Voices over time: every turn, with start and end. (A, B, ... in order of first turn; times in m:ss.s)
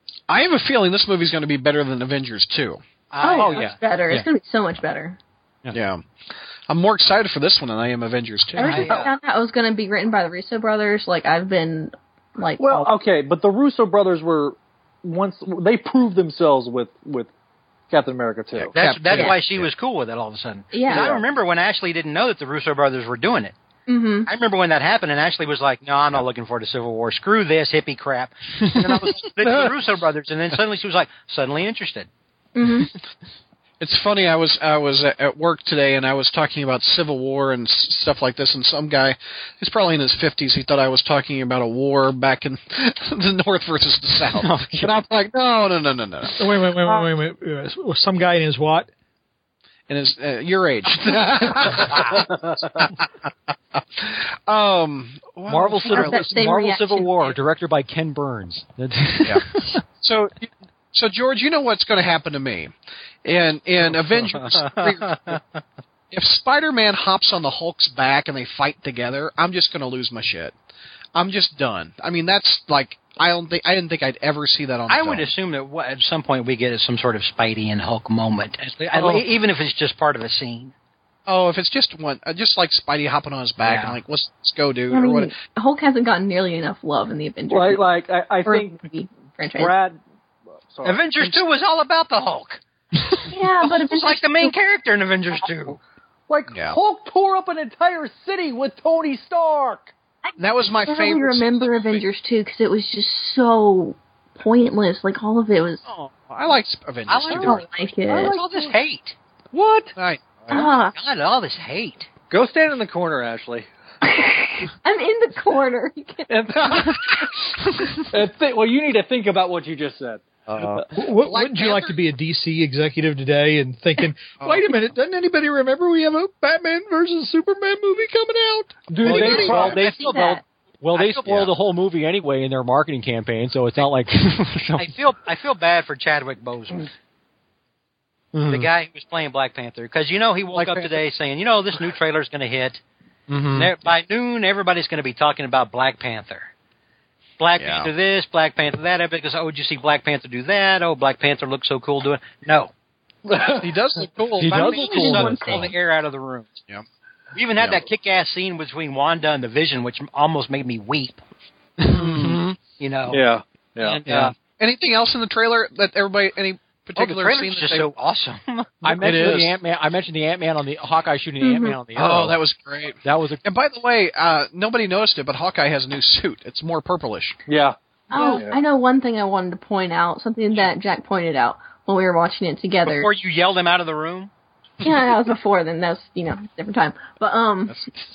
0:00.3-0:02.8 A
0:03.1-0:03.8 B
0:03.2-0:05.2 C
0:03.4-0:04.2 D
0:05.7-0:06.0 A
0:06.7-0:08.9 A
0:08.6-0:12.9 C
0:08.6-0:09.1 B
0:12.6-0:17.3 E
0:17.9-0:18.7 E
0:18.6-0:19.7 A
0:18.7-0:23.5 B
0:20.7-0:21.1 C
0:20.9-0:21.2 A
0:23.9-0:24.3 C
0:24.3-0:32.1 B
0:32.6-0:32.9 C
0:33.8-0:47.0 A
0:44.3-0:44.9 D
0:46.4-0:48.9 F
0:49.9-0:53.0 A
0:51.9-0:52.2 B
0:53.8-0:56.2 A
0:55.5-0:59.8 D
0:55.8-0:57.4 C
1:00.0-1:02.7 A
1:03.2-1:05.4 A
1:04.4-1:05.4 B
1:06.1-1:10.5 A
1:11.1-1:15.3 A
1:14.9-1:20.7 B
1:21.3-1:25.3 A
1:23.6-1:24.0 B
1:24.9-1:27.8 C
1:27.5-1:28.8 E
1:28.4-1:29.7 C
1:29.5-1:30.0 E
1:30.7-1:31.3 E
1:30.8-1:32.6 B
1:33.3-1:34.5 C
1:33.6-1:35.8 B
1:36.3-1:39.9 E
1:36.5-1:36.8 A
1:40.2-1:45.9 C
1:40.4-1:42.0 A
1:45.9-1:47.6 A
1:47.1-1:49.2 B
1:47.4-1:48.4 C
1:48.1-1:48.7 E
1:49.5-1:49.9 E
1:49.9-1:50.7 A
1:50.5-1:50.9 C
1:50.5-1:52.1 B
1:52.3-1:53.7 E
1:54.8-1:56.3 C
1:56.3-1:57.1 E
1:58.1-2:00.3 E
2:00.6-2:00.8 D
2:00.9-2:08.9 F
2:01.2-2:02.0 A
2:04.4-2:04.6 A
2:08.9-2:10.3 E
2:09.0-2:10.4 B
2:09.0-2:09.8 A
2:09.1-2:10.4 C
2:09.1-2:09.4 D
2:10.8-2:14.9 D
2:10.9-2:11.4 B
2:14.8-2:16.9 B
2:18.3-2:18.6 D
2:18.5-2:22.8 B
2:20.5-2:21.0 A
2:23.3-2:23.7 D
2:23.5-2:26.5 B
2:27.4-2:32.7 B
2:27.6-2:27.9 A
2:33.2-2:33.7 E
2:33.5-2:35.5 A
2:34.4-2:35.7 D
2:34.4-2:36.6 B
2:34.7-2:35.7 C
2:37.3-2:41.2 B
2:37.6-2:37.8 A
2:41.8-2:42.6 D
2:41.9-2:42.4 A
2:42.8-2:43.2 B
2:43.1-2:44.0 E
2:43.8-2:44.3 B
2:44.0-2:47.9 A
2:47.0-2:48.7 B
2:48.8-2:52.4 D
2:49.0-2:49.6 A
2:51.4-2:51.8 C
2:51.9-2:57.4 A
2:53.0-2:53.4 D
2:57.5-2:57.8 E
2:58.1-3:03.1 C
2:58.3-2:58.6 E
3:02.8-3:04.3 B
3:04.8-3:07.8 C